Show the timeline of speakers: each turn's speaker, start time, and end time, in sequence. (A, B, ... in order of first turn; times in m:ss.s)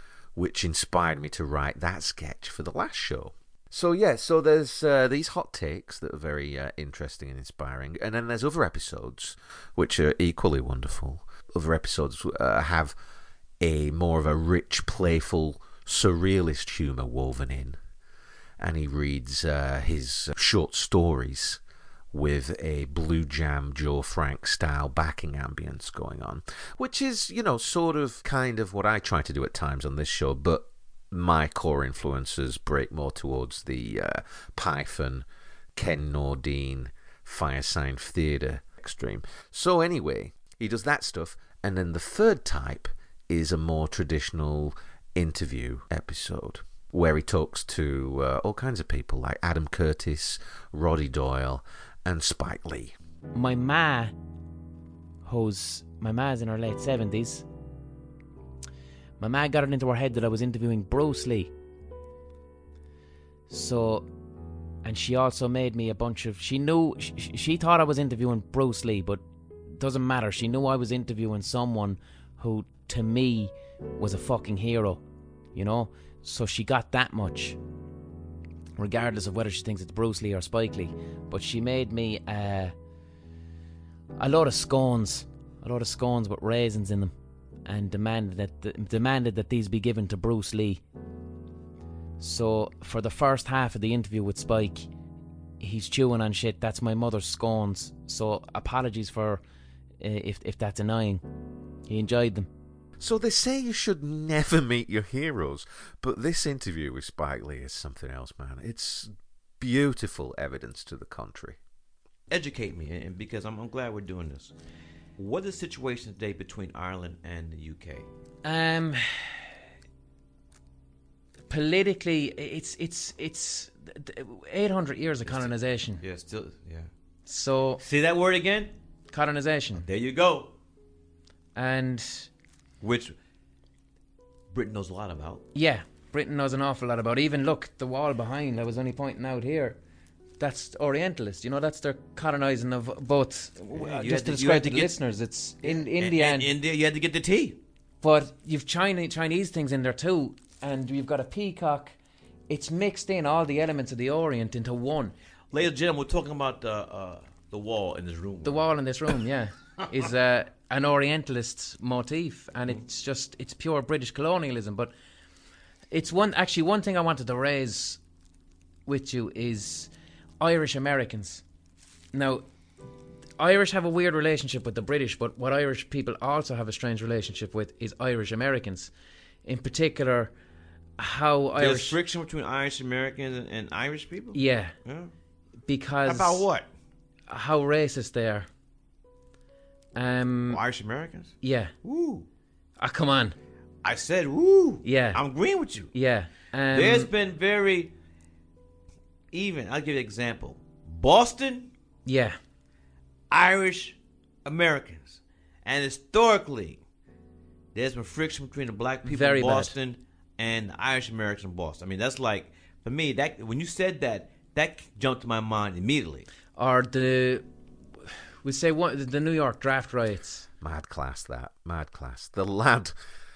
0:00.3-0:13.0 A
0:13.6-0:17.8 A
0:18.6-0:21.6 A
0:22.1-0:53.0 A
0:53.3-0:54.1 B
0:55.2-0:57.4 B
0:59.2-1:01.5 B
1:03.5-1:04.1 B
1:04.8-1:09.2 B
1:09.7-1:15.0 B
1:15.5-1:17.6 B
1:18.8-1:22.7 B
1:24.2-1:27.1 B
1:27.6-1:30.8 B
1:32.2-1:34.9 B
1:35.6-1:39.4 B
1:40.0-1:41.2 B
1:41.9-1:42.5 B
1:43.0-1:51.6 A
1:52.3-1:54.5 C
1:55.2-1:58.1 C
1:58.4-1:59.4 B
2:01.5-2:06.0 B
2:05.2-2:06.9 C
2:07.3-2:07.8 B
2:07.8-2:08.7 C
2:09.1-2:09.8 B
2:09.7-2:10.5 C
2:11.6-2:12.3 B
2:12.8-2:13.2 C
2:14.5-2:15.4 C
2:15.5-2:19.8 B
2:20.4-2:26.5 B
2:23.6-2:24.9 C
2:25.6-2:27.6 C
2:28.0-2:31.9 B
2:32.5-2:35.1 B
2:35.5-2:38.7 C
2:38.4-2:44.9 B
2:45.9-2:48.0 B
2:48.8-2:51.4 B
2:52.1-2:52.4 B
2:53.4-2:58.9 B
2:59.4-3:00.3 B
3:01.0-3:02.0 B
3:01.6-3:05.1 C
3:04.3-3:04.7 B
3:05.7-3:06.4 B
3:06.0-3:06.6 C
3:07.3-3:08.5 B
3:10.0-3:10.6 B
3:10.5-3:12.3 C
3:11.4-3:11.7 B
3:12.8-3:13.4 B
3:13.8-3:15.9 C
3:14.8-3:15.2 B
3:15.9-3:17.1 B
3:16.7-3:17.9 C
3:19.3-3:21.7 C
3:22.0-3:22.4 B
3:23.3-3:26.8 C
3:27.7-3:36.3 C
3:29.0-3:29.7 B
3:36.6-3:37.4 B
3:38.4-3:40.5 B
3:40.6-3:42.9 A